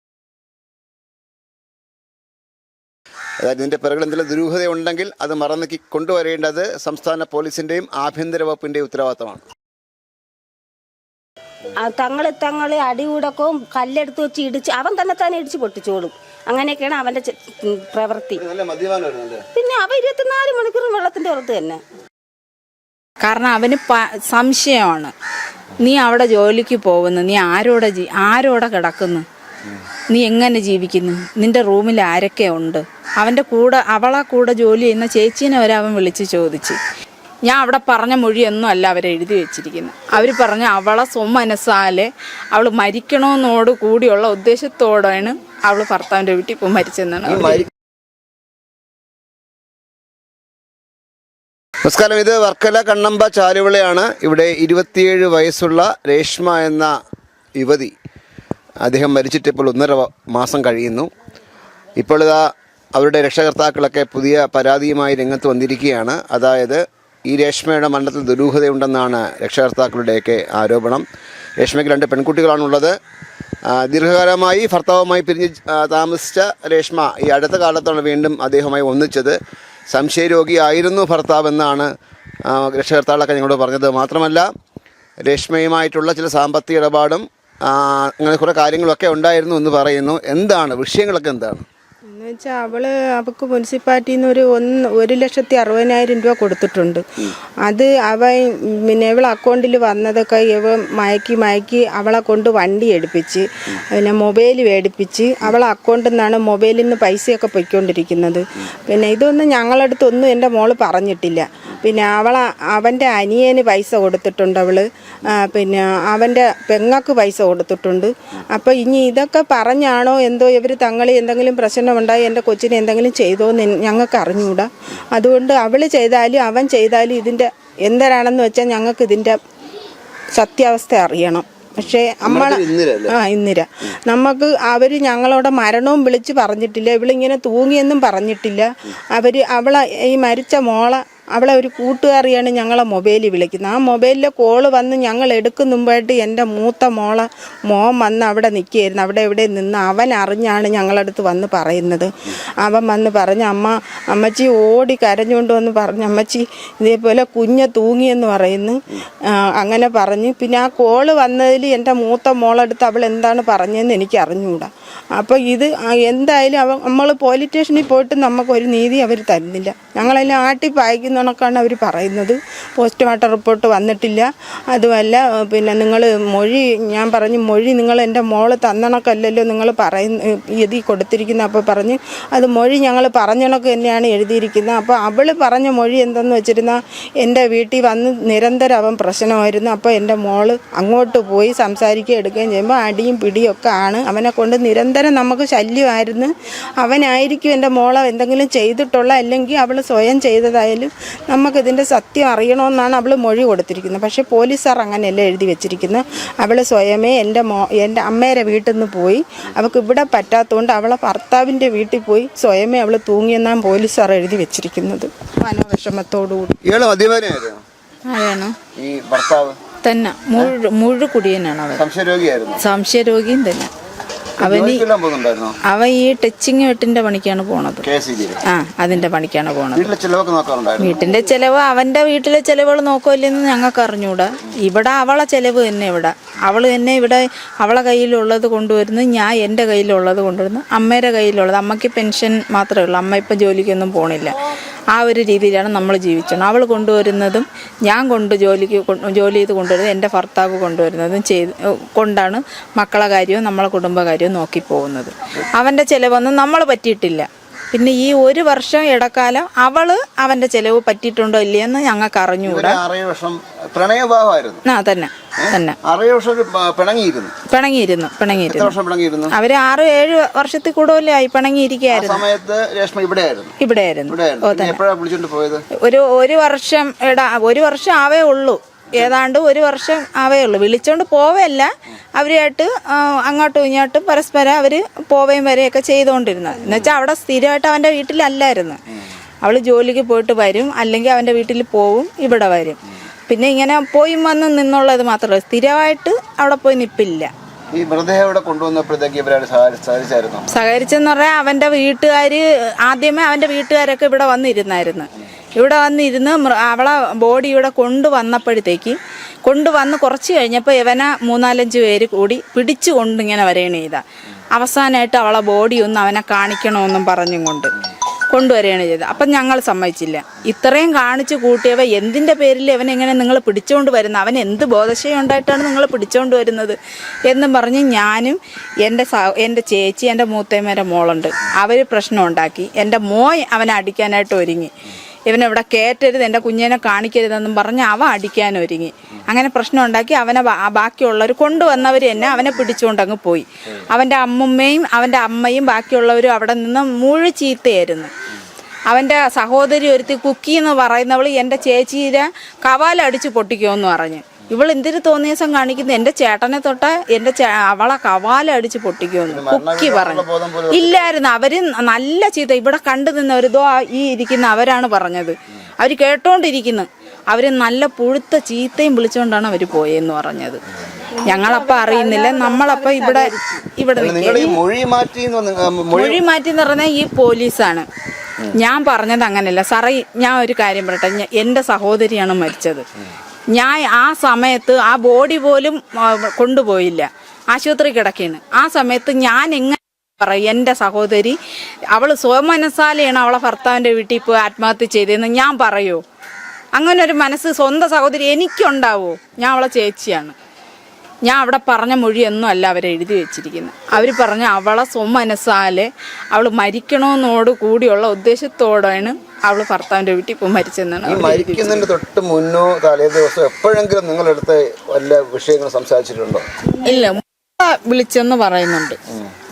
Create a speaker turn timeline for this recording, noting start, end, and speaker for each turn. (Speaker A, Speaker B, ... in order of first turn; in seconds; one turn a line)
Speaker A: 3.4-9.4
Speaker B: 11.8-18.4
Speaker A: 18.4-19.4
Speaker B: 19.6-21.8
Speaker C: 23.2-25.1
Speaker C: 25.8-29.2
Speaker C: 30.1-36.8
Speaker C: 37.5-47.7
Speaker A: 47.3-47.7
Speaker A: 51.9-56.9
Speaker A: 57.6-57.9
Speaker A: 58.8-61.1
Speaker A: 62.0-62.4
Speaker A: 63.0-71.0
Speaker A: 71.6-72.9
Speaker A: 73.7-79.4
Speaker A: 79.9-81.9
Speaker A: 82.5-84.5
Speaker A: 85.2-91.7
Speaker D: 92.1-97.0
Speaker D: 97.7-129.4
Speaker D: 130.3-152.1
Speaker A: 132.2-133.1
Speaker D: 152.6-158.8
Speaker D: 159.6-216.6
Speaker A: 216.7-217.6
Speaker C: 218.1-218.6
Speaker A: 218.8-219.6
Speaker C: 219.8-221.8
Speaker A: 221.8-222.6
Speaker C: 222.6-223.7
Speaker C: 224.4-224.9
Speaker A: 224.4-225.6
Speaker C: 225.7-227.9
Speaker A: 227.8-228.4
Speaker C: 228.5-229.9
Speaker A: 229.7-231.0
Speaker C: 230.8-244.4
Speaker C: 244.9-262.8
Speaker A: 262.4-264.6
Speaker C: 264.7-265.8
Speaker A: 265.4-267.3
Speaker C: 267.5-268.7
Speaker A: 268.3-269.4
Speaker C: 269.3-272.2
Speaker A: 271.9-273.5
Speaker C: 273.6-274.8
Speaker A: 274.1-275.6
Speaker C: 275.8-288.8
Speaker C: 289.4-297.3
Speaker A: 297.7-300.4
Speaker C: 300.5-317.7
Speaker C: 318.3-334.7
Speaker C: 335.3-348.1
Speaker C: 348.9-370.6
Speaker A: 359.3-361.1
Speaker D: 371.2-373.7
Speaker C: 371.3-374.6
Speaker A: 374.0-376.2
Speaker C: 375.9-377.9
Speaker C: 378.6-382.9
Speaker C: 383.5-391.4
Speaker C: 391.9-396.0
Speaker C: 396.7-400.4
Speaker C: 401.3-411.9
Speaker A: 411.1-416.4
Speaker D: 416.7-417.2
Speaker C: 416.8-419.0